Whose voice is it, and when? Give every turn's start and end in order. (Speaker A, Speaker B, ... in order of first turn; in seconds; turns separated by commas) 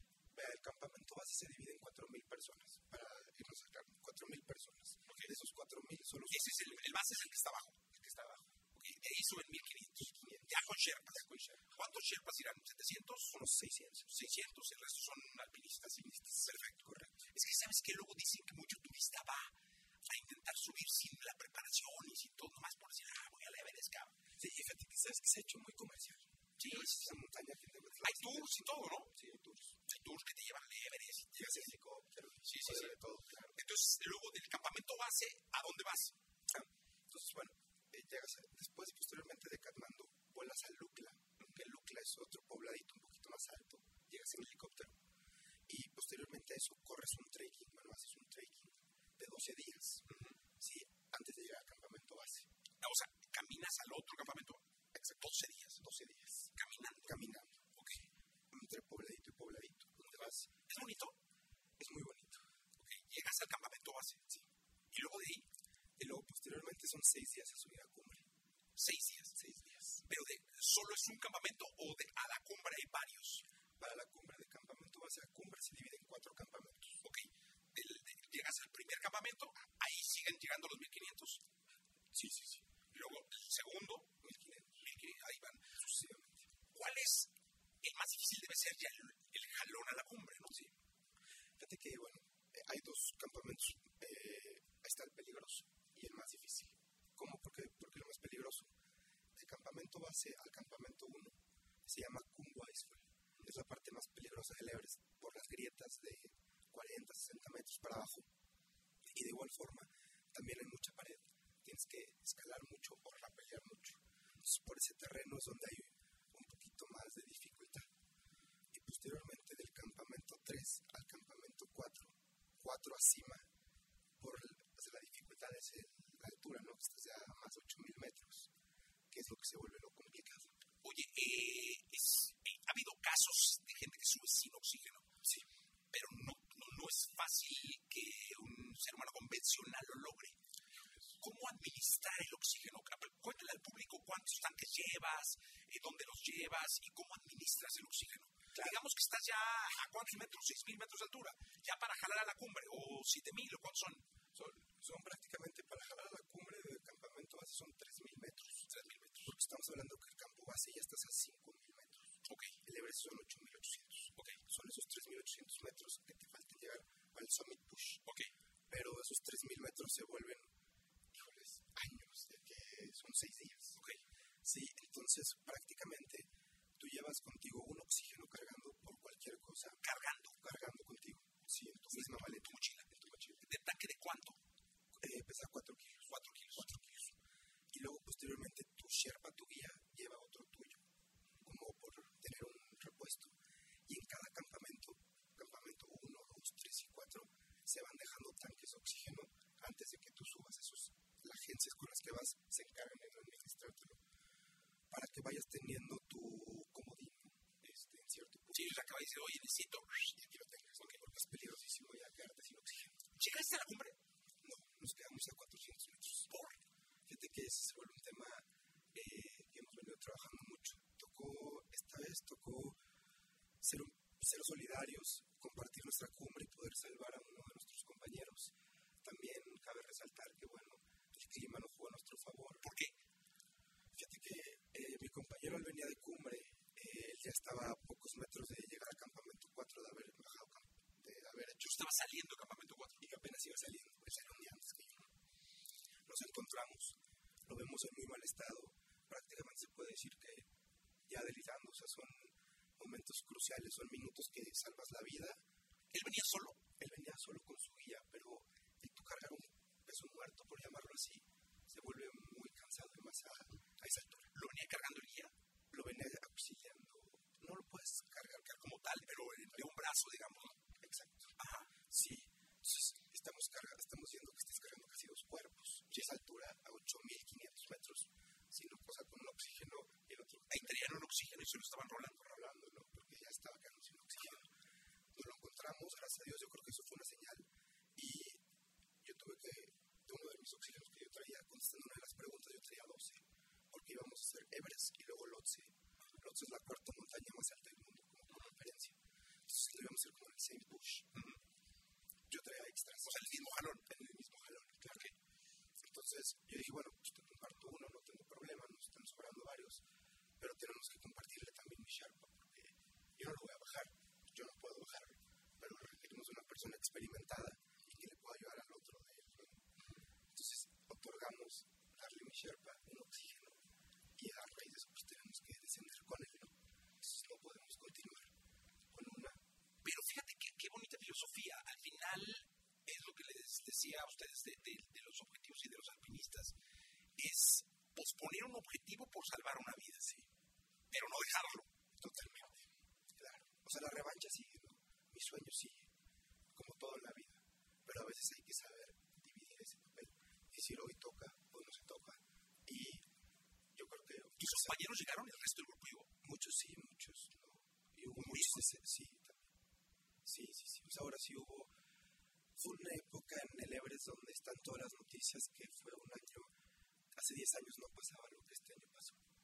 Speaker A: 0.3-7.0, Speaker B: 6.3-7.8, Speaker A: 7.8-8.5, Speaker B: 8.7-13.4, Speaker A: 10.0-11.7, Speaker A: 13.3-14.2, Speaker B: 14.1-16.6, Speaker A: 15.9-17.2, Speaker B: 17.3-19.5, Speaker B: 20.0-24.1, Speaker A: 24.4-29.8, Speaker B: 26.6-27.1, Speaker B: 28.0-29.1, Speaker B: 29.9-31.5, Speaker A: 31.3-33.6, Speaker B: 32.5-33.0, Speaker B: 33.5-36.1, Speaker A: 36.5-45.0, Speaker A: 45.7-52.5, Speaker B: 50.1-50.3, Speaker B: 52.8-55.8, Speaker A: 55.8-56.5, Speaker B: 56.5-57.1, Speaker A: 57.0-57.6, Speaker B: 57.7-58.0, Speaker A: 58.5-60.6, Speaker B: 60.6-61.2, Speaker A: 61.8-62.4, Speaker B: 62.8-64.3, Speaker B: 64.9-65.5, Speaker A: 66.0-68.2, Speaker B: 68.8-69.4, Speaker A: 69.3-70.0, Speaker B: 69.9-73.4, Speaker A: 73.8-77.0, Speaker B: 77.0-81.4, Speaker A: 82.1-82.7, Speaker B: 82.9-84.1, Speaker A: 84.2-84.8, Speaker B: 84.8-85.8, Speaker A: 85.8-86.4, Speaker B: 86.7-87.3, Speaker B: 87.8-90.7, Speaker A: 91.6-98.7, Speaker A: 99.3-108.3, Speaker A: 109.0-117.9, Speaker A: 118.7-123.5, Speaker A: 124.2-128.5, Speaker A: 129.1-130.6, Speaker B: 130.8-135.1, Speaker B: 135.9-140.4, Speaker B: 141.2-154.0, Speaker A: 154.3-158.7, Speaker B: 158.7-159.3, Speaker A: 159.2-168.0, Speaker B: 162.2-162.6, Speaker B: 164.1-164.4, Speaker B: 168.0-168.3, Speaker A: 168.7-170.5, Speaker A: 171.1-173.8, Speaker B: 173.7-174.0, Speaker A: 174.4-179.8, Speaker B: 179.8-180.4, Speaker A: 180.4-183.4, Speaker B: 181.8-182.8, Speaker B: 183.4-184.4, Speaker A: 184.9-186.3, Speaker B: 186.1-187.1, Speaker A: 187.7-190.8, Speaker A: 191.4-193.3, Speaker A: 193.9-204.0, Speaker A: 204.9-208.8, Speaker B: 208.5-210.2, Speaker A: 210.1-213.0, Speaker B: 213.1-214.0, Speaker A: 214.4-216.3, Speaker B: 216.2-216.6, Speaker A: 217.1-222.8, Speaker A: 223.6-232.7, Speaker B: 232.6-232.9, Speaker A: 233.9-241.8, Speaker B: 241.5-243.1, Speaker A: 243.0-245.0, Speaker A: 246.1-250.4, Speaker A: 251.1-255.4, Speaker B: 255.9-256.6, Speaker A: 256.8-264.3, Speaker B: 264.3-265.3, Speaker A: 265.7-268.7, Speaker B: 268.5-270.6, Speaker A: 270.8-280.9, Speaker B: 271.4-271.7, Speaker B: 280.5-282.2, Speaker A: 282.1-284.5, Speaker A: 285.1-288.4, Speaker A: 289.0-299.0, Speaker A: 299.5-301.1, Speaker B: 301.1-301.4, Speaker A: 302.3-305.1, Speaker B: 303.1-303.8, Speaker A: 305.8-309.8, Speaker A: 310.4-319.6, Speaker A: 320.3-323.6, Speaker A: 324.2-328.3, Speaker A: 328.9-329.4, Speaker B: 329.8-336.5, Speaker B: 337.2-340.2, Speaker B: 340.9-341.7, Speaker A: 342.0-345.9, Speaker A: 346.5-353.0, Speaker A: 353.7-354.8, Speaker B: 354.4-356.1, Speaker A: 356.2-359.4, Speaker B: 358.1-358.7, Speaker A: 360.2-361.7, Speaker A: 362.6-366.5, Speaker A: 367.1-369.2